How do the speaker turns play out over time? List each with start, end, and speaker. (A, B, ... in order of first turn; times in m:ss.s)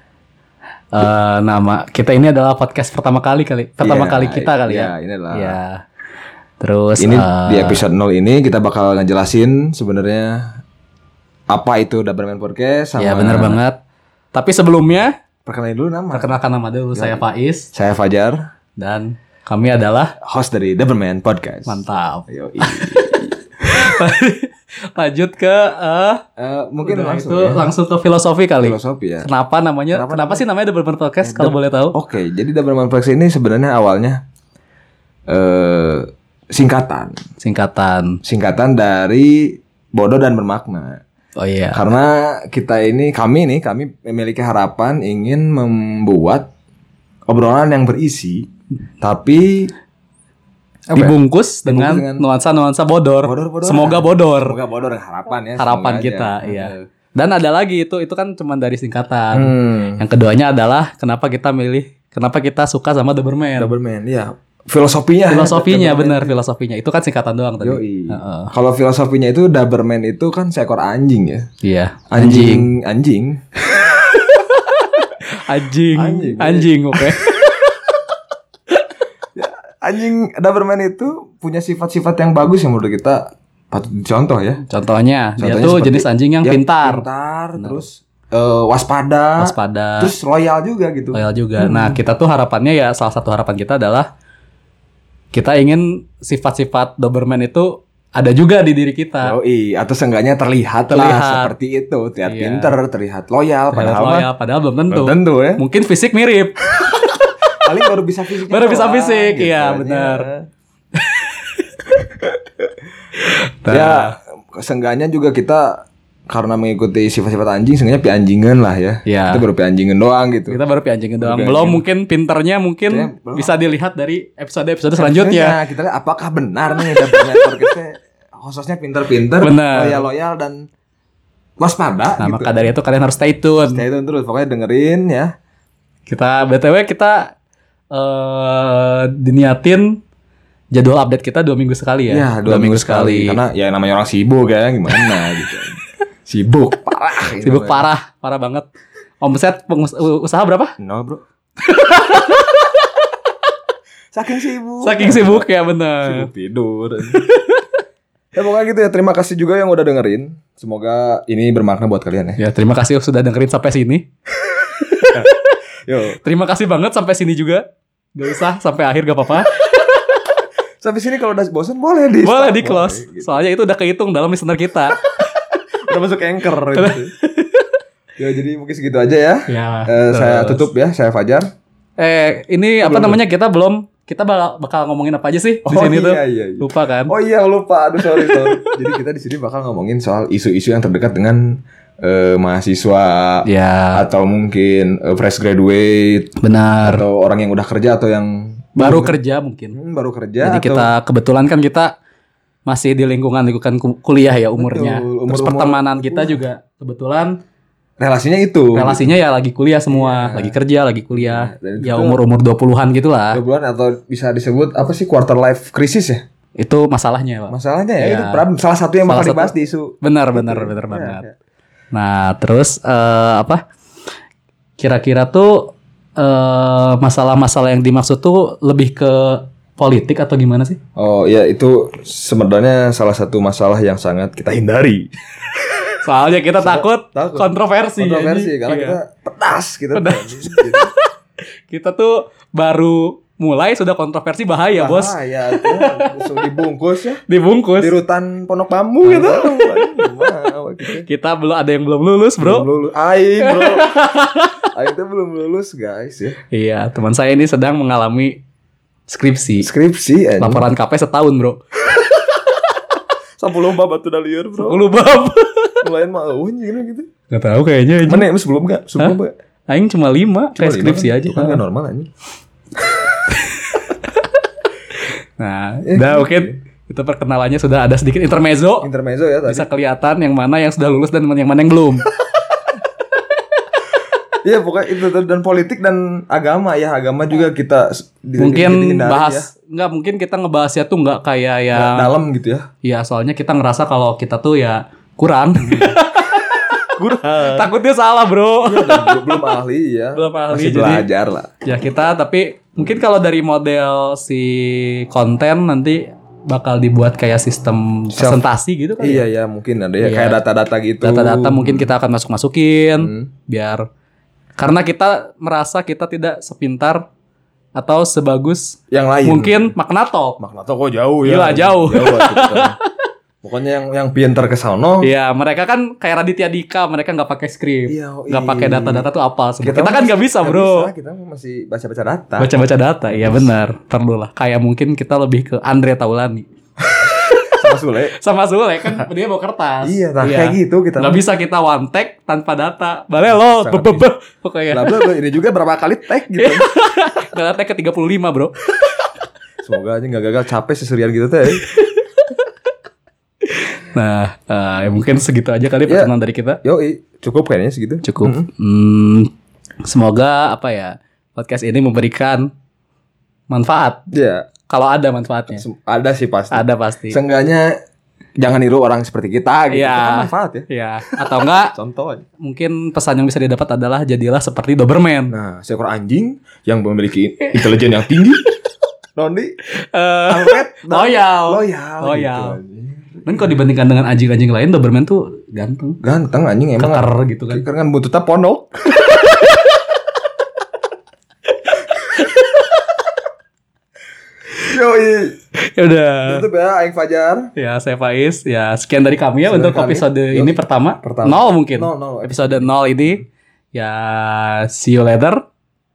0:00.9-0:05.8 A
0:03.8-0:05.6 B
0:06.6-0:07.8 A
0:07.0-0:10.4 B
0:11.5-0:13.6 B
0:13.0-0:13.8 A
0:14.3-0:15.1 A
0:15.4-0:16.4 B
0:16.1-0:17.7 A
0:16.9-0:18.4 B
0:18.8-0:20.1 A
0:20.2-0:23.8 B
0:21.6-0:23.0 A
0:23.7-0:26.2 A
0:26.4-0:27.7 B
0:26.8-0:31.9 A
0:28.6-0:29.3 B
0:29.9-0:30.4 B
0:31.2-0:34.2 B
0:35.3-0:37.1 B
0:37.4-0:38.2 A
0:38.2-0:41.0 B
0:41.4-0:41.8 A
0:41.7-0:46.5 B
0:47.3-0:48.4 B
0:49.0-0:49.7 B
0:50.9-0:54.6 A
0:51.6-0:52.2 B
0:53.2-0:56.8 B
0:55.6-1:03.7 A
0:59.3-1:00.0 B
1:03.6-1:06.3 B
1:05.3-1:08.5 A
1:07.6-1:11.5 B
1:11.6-1:12.7 A
1:12.1-1:13.4 B
1:13.7-1:17.4 A
1:15.9-1:17.5 B
1:19.4-1:24.6 B
1:24.7-1:27.0 A
1:25.4-1:32.0 B
1:29.4-1:30.1 A
1:31.1-1:34.1 A
1:35.3-1:39.3 A
1:39.2-1:44.3 B
1:40.9-1:41.5 A
1:42.2-1:42.7 A
1:43.7-1:47.3 A
1:44.9-1:45.6 B
1:47.6-1:50.4 B
1:48.5-1:50.3 A
1:51.0-1:51.6 A
1:53.2-1:54.1 A
1:53.7-2:00.6 B
1:59.0-1:59.4 A
2:00.5-2:05.6 A
2:01.2-2:01.8 B
2:02.9-2:03.5 B
2:05.0-2:10.6 B
2:06.8-2:07.7 A
2:09.4-2:10.0 A
2:11.6-2:12.6 B
2:12.2-2:13.8 A
2:13.7-2:15.3 B
2:16.1-2:17.3 A
2:17.9-2:19.9 A
2:20.7-2:23.4 A
2:22.1-2:27.9 B
2:27.4-2:28.7 A
2:29.2-2:30.7 A
2:30.8-2:31.2 B
2:31.6-2:32.8 A
2:34.1-2:35.4 B
2:34.8-2:36.3 A
2:36.0-2:37.2 B
2:37.1-2:37.6 A
2:38.3-2:42.4 B
2:42.4-2:44.0 A
2:44.4-2:45.2 B
2:44.8-2:45.4 A
2:45.9-2:46.2 B
2:46.2-2:47.6 A
2:48.2-2:49.9 A
2:50.8-2:53.4 B
2:52.2-2:55.0 A
2:55.9-2:57.1 B
2:56.7-2:57.8 A
2:58.2-3:01.5 B
2:59.5-3:00.7 A
3:02.0-3:07.1 A
3:02.8-3:03.2 B
3:05.6-3:16.3 B
3:08.1-3:08.7 A
3:13.4-3:14.0 A
3:16.4-3:17.0 A
3:16.8-3:19.2 B
3:18.8-3:19.8 A
3:19.7-3:20.9 B
3:20.4-3:21.9 A
3:22.7-3:27.3 A
3:24.6-3:26.4 B
3:28.0-3:29.0 B
3:28.7-3:33.4 A
3:29.9-3:30.6 B
3:31.1-3:32.2 B
3:33.3-3:36.2 B
3:36.6-3:38.4 A
3:37.5-3:41.4 B
3:39.1-3:41.2 A
3:41.9-3:43.6 A
3:44.8-3:50.8 A
3:51.0-3:55.1 B
3:56.0-3:59.0 A
3:56.6-4:00.9 B
3:59.9-4:01.0 A
4:01.7-4:06.3 A
4:04.8-4:07.2 B
4:07.3-4:07.9 A
4:07.8-4:11.0 B
4:09.0-4:10.1 A
4:10.9-4:12.6 A
4:12.4-4:14.0 B
4:13.4-4:14.6 A
4:14.6-4:16.4 B
4:16.5-4:18.4 A
4:19.1-4:19.7 A
4:19.6-4:20.6 B
4:20.4-4:21.6 A
4:23.4-4:24.8 B
4:24.6-4:25.8 A
4:25.8-4:27.1 B
4:27.3-4:28.3 A
4:28.0-4:29.3 B
4:29.7-4:31.6 A
4:30.6-4:32.1 B
4:33.3-4:33.9 A
4:35.4-4:38.9 A
4:35.8-4:36.6 B
4:38.8-4:39.7 B
4:39.5-4:42.1 A
4:44.4-4:49.5 B
4:48.4-4:52.1 A
4:51.7-4:52.7 B
4:52.8-4:59.4 A
4:55.6-4:57.7 B
4:58.6-5:01.5 B
5:00.1-5:01.0 A
5:01.6-5:09.2 A
5:08.1-5:08.4 B
5:09.0-5:11.9 B
5:10.0-5:10.4 A
5:11.0-5:13.8 A
5:13.0-5:13.3 B
5:14.6-5:17.0 A
5:17.8-5:20.4 A
5:18.9-5:19.7 B
5:20.4-5:22.8 B
5:21.2-5:22.9 A
5:23.4-5:25.1 B
5:25.0-5:30.9 A
5:27.9-5:29.0 B
5:29.6-5:32.5 B
5:32.4-5:36.4 A
5:33.1-5:33.4 B
5:36.9-5:38.2 B
5:37.1-5:37.6 A
5:38.1-5:45.1 A
5:39.8-5:41.2 B
5:43.2-5:44.0 B
5:44.7-5:46.6 B
5:46.4-5:49.0 A
5:49.6-5:51.7 B
5:51.5-5:52.4 A
5:53.4-5:56.6 A
5:56.6-5:58.5 B
5:58.0-5:59.3 A
5:59.8-6:02.5 A
6:03.5-6:04.0 A
6:04.1-6:04.5 B
6:04.7-6:05.6 A
6:05.5-6:07.7 B
6:06.5-6:07.2 A
6:08.4-6:12.2 B
6:09.7-6:11.7 A
6:12.4-6:15.3 A
6:15.3-6:18.4 B
6:19.2-6:19.5 B
6:19.8-6:22.6 A
6:20.3-6:23.5 B
6:23.2-6:26.0 A
6:26.0-6:29.1 B
6:26.8-6:27.6 A
6:29.1-6:29.3 A
6:32.1-6:32.6 A
6:34.6-6:35.4 B
6:35.6-6:36.4 A
6:36.2-6:37.5 B
6:37.6-6:43.2 A
6:39.4-6:43.2 B
6:43.7-6:45.4 A